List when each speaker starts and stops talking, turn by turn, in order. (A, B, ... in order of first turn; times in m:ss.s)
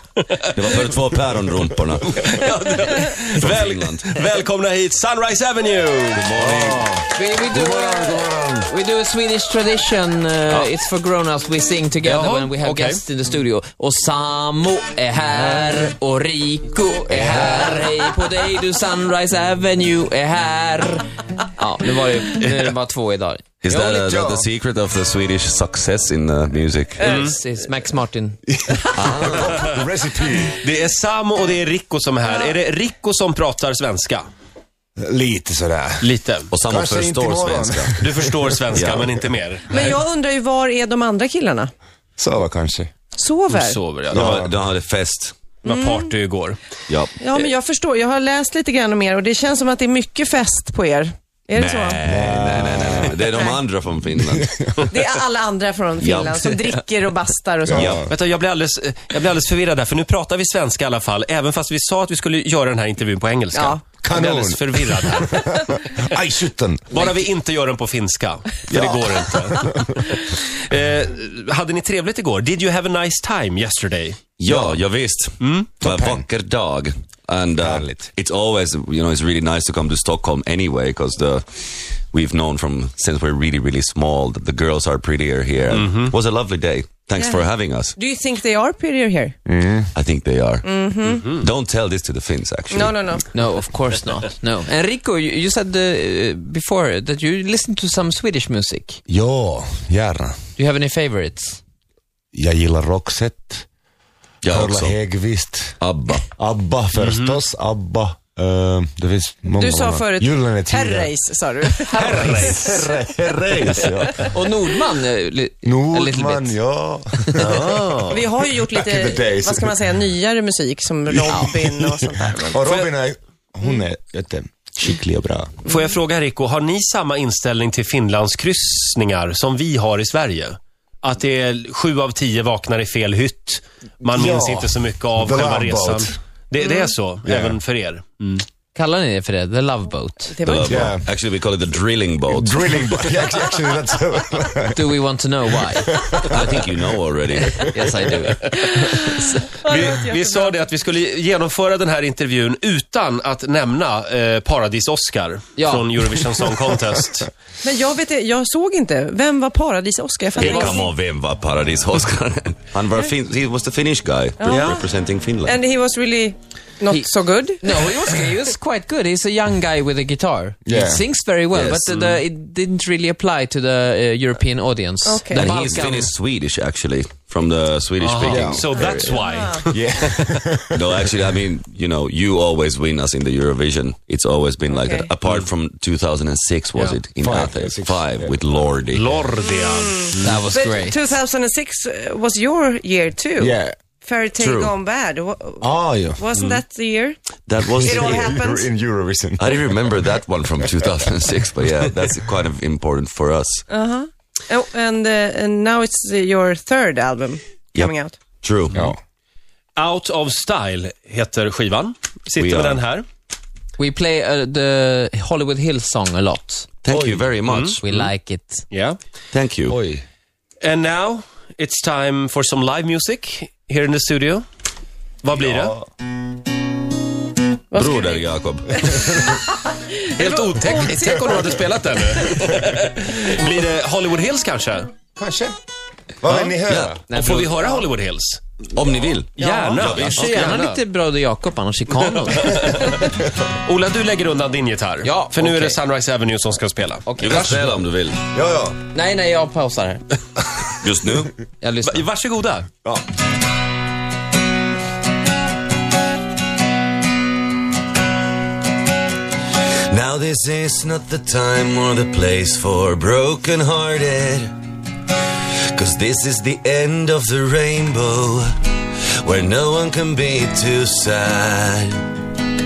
0:00.2-0:00.8 A
0:00.5-0:02.2 B
0:02.1-0:06.3 A
0:03.4-0:04.2 B
0:06.2-0:06.9 B
0:06.4-0:08.7 C
0:07.1-0:24.0 D
0:12.0-0:13.0 A
0:17.1-0:17.7 C
0:23.6-0:27.2 B
0:23.9-0:24.5 C
0:27.0-0:29.0 D
0:27.0-0:27.4 A
0:28.5-0:30.6 C
0:29.0-0:29.5 B
0:30.5-0:34.2 A
0:32.3-0:32.5 E
0:35.0-0:36.1 C
0:36.0-0:36.5 A
0:36.5-0:38.0 B
0:36.6-0:38.5 C
0:38.0-0:40.0 A
0:38.7-0:39.1 B
0:39.7-0:41.7 E
0:42.2-0:42.9 C
0:43.2-0:43.8 E
0:43.5-0:44.4 A
0:44.1-0:44.6 C
0:44.1-0:45.3 B
0:45.6-0:46.6 A
0:45.6-0:46.1 E
0:46.9-0:47.2 B
0:47.2-0:52.0 E
0:51.5-0:55.0 B
0:52.0-0:53.2 C
0:53.2-0:53.6 E
0:54.3-0:54.7 C
0:54.9-0:58.0 E
0:56.0-0:56.7 B
0:57.6-0:58.1 C
0:57.7-0:58.1 B
0:58.1-1:05.4 A
1:03.5-1:03.8 E
1:04.0-1:07.0 C
1:06.9-1:14.2 A
1:08.7-1:09.9 C
1:14.4-1:28.0 B
1:14.4-1:14.8 C
1:15.4-1:15.7 A
1:15.8-1:16.3 C
1:17.6-1:18.1 C
1:25.7-1:26.2 A
1:27.2-1:27.5 E
1:28.0-1:29.4 E
1:29.5-1:29.9 C
1:29.9-1:30.7 B
1:30.6-1:31.3 E
1:31.3-1:33.1 B
1:32.7-1:33.2 E
1:33.3-1:39.0 D
1:39.1-1:40.4 C
1:40.6-1:41.6 D
1:42.3-1:43.7 C
1:44.4-1:45.0 B
1:44.4-1:51.1 C
1:45.8-1:46.3 B
1:47.0-1:47.4 A
1:49.6-1:52.7 E
1:51.9-1:52.7 A
1:52.0-1:54.4 C
1:53.2-1:54.2 B
1:54.2-1:56.6 D
1:55.6-1:57.6 C
1:57.4-1:58.2 A
1:58.1-2:02.6 E
1:58.7-1:59.8 C
2:01.1-2:05.6 C
2:05.6-2:18.4 A
2:14.0-2:16.2 C
2:17.3-2:17.6 C
2:18.8-2:20.4 D
2:20.3-2:20.9 E
2:20.4-2:22.9 B
2:20.6-2:21.1 C
2:22.3-2:24.9 C
2:24.7-2:26.3 D
2:25.8-2:26.7 C
2:26.3-2:27.7 B
2:27.5-2:28.7 D
2:28.6-2:37.3 A
2:28.9-2:30.6 E
2:35.6-2:35.9 D
2:37.6-2:40.9 E
2:40.4-2:45.6 B
2:44.4-2:44.8 E
2:44.5-2:44.8 A
2:45.4-2:47.6 E
2:47.6-2:56.1 D
2:50.6-2:51.0 C
2:51.5-2:51.9 B
2:51.9-2:52.2 A
2:55.0-2:55.6 E
2:55.3-2:58.8 B
2:58.0-3:00.3 A
2:58.3-3:01.0 C
2:58.8-2:59.6 E
3:00.7-3:09.2 B
3:04.7-3:05.1 E
3:07.2-3:08.5 C
3:08.9-3:10.3 A
3:09.6-3:17.2 E
3:10.2-3:11.0 D
3:13.4-3:13.8 C
3:14.4-3:14.7 B
3:15.6-3:16.3 C
3:17.5-3:18.4 B
3:17.8-3:20.1 C
3:17.8-3:18.7 E
3:19.4-3:23.7 B
3:23.7-3:28.2 E
3:27.7-3:28.9 B
3:29.8-3:33.1 A
3:32.4-3:32.8 B
3:33.8-3:36.7 D
3:36.8-3:37.8 B
3:36.9-3:37.3 C
3:37.5-3:38.1 A
3:37.8-3:38.6 D
3:38.7-3:39.0 A
3:39.3-3:39.8 B
3:39.7-3:40.0 C
3:40.6-3:44.4 A
3:45.2-3:45.8 A
3:45.4-3:45.8 C
3:47.7-3:51.0 E
3:47.8-3:48.9 B
3:50.0-3:54.9 A
3:55.2-3:55.6 C
3:56.2-3:57.0 C
3:56.3-3:56.5 A
3:56.7-3:57.1 B
3:57.1-3:57.8 D
3:57.1-3:58.4 A
3:58.7-4:00.3 B
3:59.4-4:00.8 A
3:59.5-3:59.8 E
4:00.0-4:02.9 D
4:02.2-4:07.6 A
4:05.0-4:05.8 D
4:07.1-4:07.8 D
4:07.2-4:08.2 B
4:08.3-4:08.8 C
4:08.9-4:10.0 D
4:10.8-4:11.5 B
4:11.6-4:12.1 D
4:11.8-4:12.7 A
4:19.9-4:24.5 B
4:25.7-4:28.5 B
4:29.2-4:32.1 B